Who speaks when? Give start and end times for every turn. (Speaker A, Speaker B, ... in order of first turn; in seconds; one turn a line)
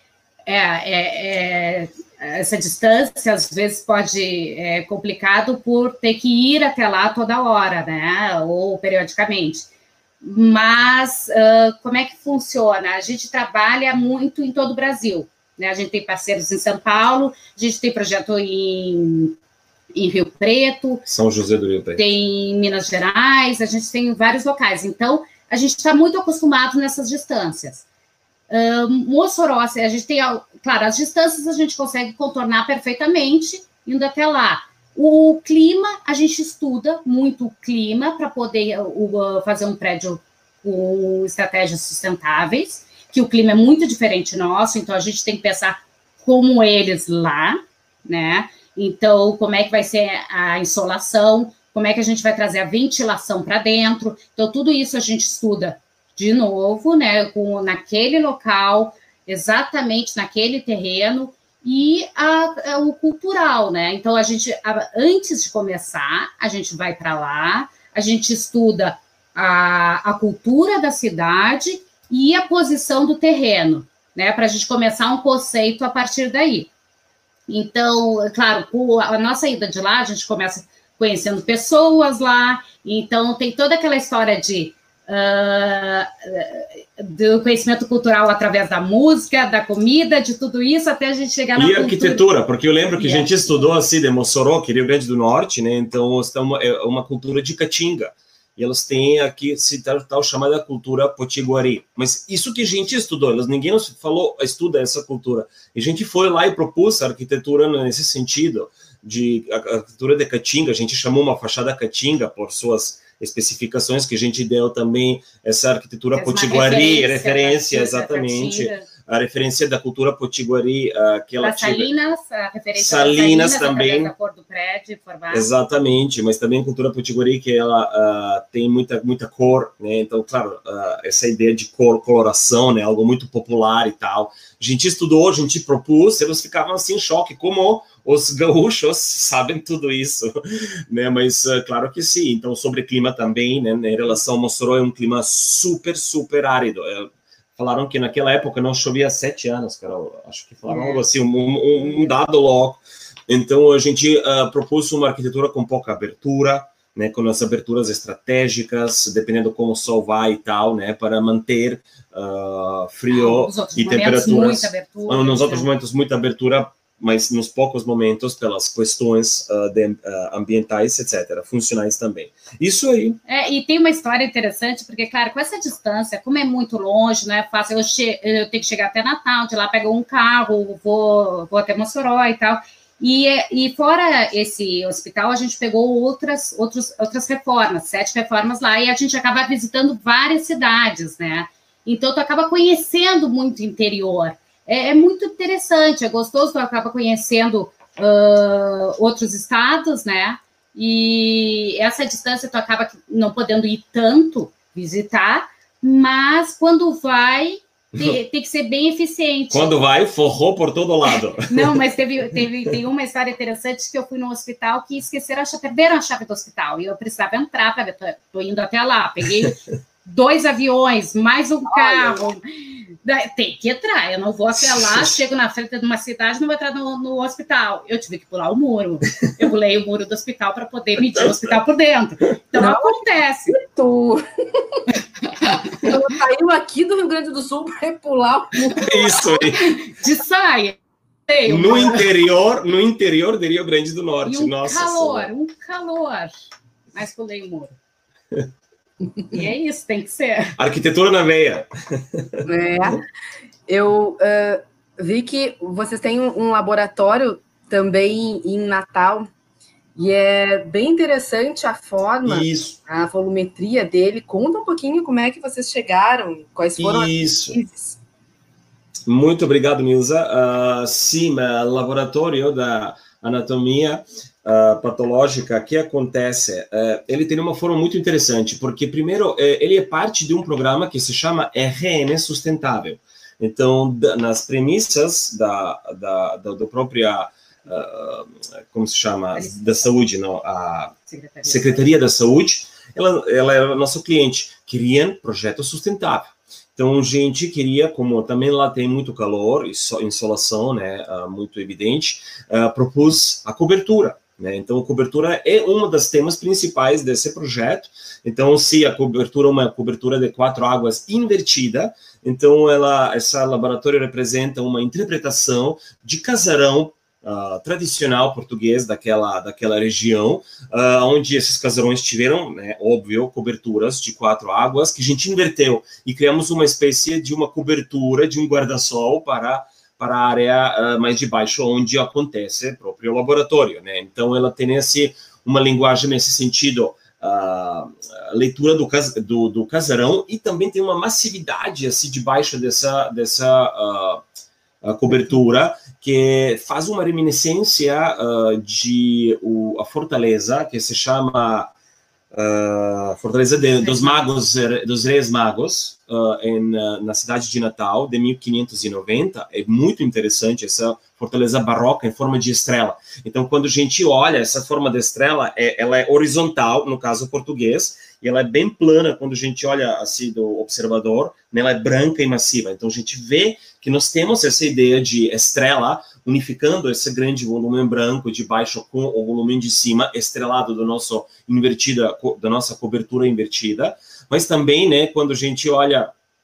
Speaker A: 0.5-9.7
Speaker A: 10.2-19.3
Speaker A: 19.9-21.0
Speaker B: 21.1-22.0
Speaker A: 21.9-27.8
Speaker A: 28.5-76.7
Speaker A: 77.5-92.2
Speaker B: 91.5-121.9
Speaker A: 93.0-93.7
Speaker A: 116.1-118.8
Speaker A: 121.4-125.5
Speaker B: 122.8-124.1
Speaker B: 125.3-173.2
Speaker A: 150.7-151.0
Speaker A: 151.8-152.1
Speaker A: 163.1-165.7
Speaker A: 173.3-209.8
Speaker B: 209.5-211.8
Speaker A: 211.5-222.4
Speaker C: 221.8-222.2
Speaker A: 223.0-233.6
Speaker B: 224.6-225.1
Speaker B: 231.1-231.5
Speaker C: 232.6-234.8
Speaker A: 235.3-235.9
Speaker C: 235.8-239.4
Speaker B: 238.8-239.6
Speaker A: 239.6-240.8
Speaker A: 241.3-242.1
Speaker B: 241.5-245.3
Speaker A: 244.2-246.4
Speaker A: 246.9-247.7
Speaker A: 249.3-250.5
Speaker B: 250.6-252.4
Speaker C: 252.4-253.0
Speaker C: 253.7-259.3
Speaker C: 259.9-268.0
Speaker B: 262.2-262.8
Speaker B: 266.8-267.6
Speaker B: 269.1-290.9
Speaker A: 289.3-289.8
Speaker A: 291.1-291.9
Speaker B: 291.4-344.2
Speaker B: 344.8-351.7
Speaker B: 352.3-386.1
Speaker A: 353.8-354.1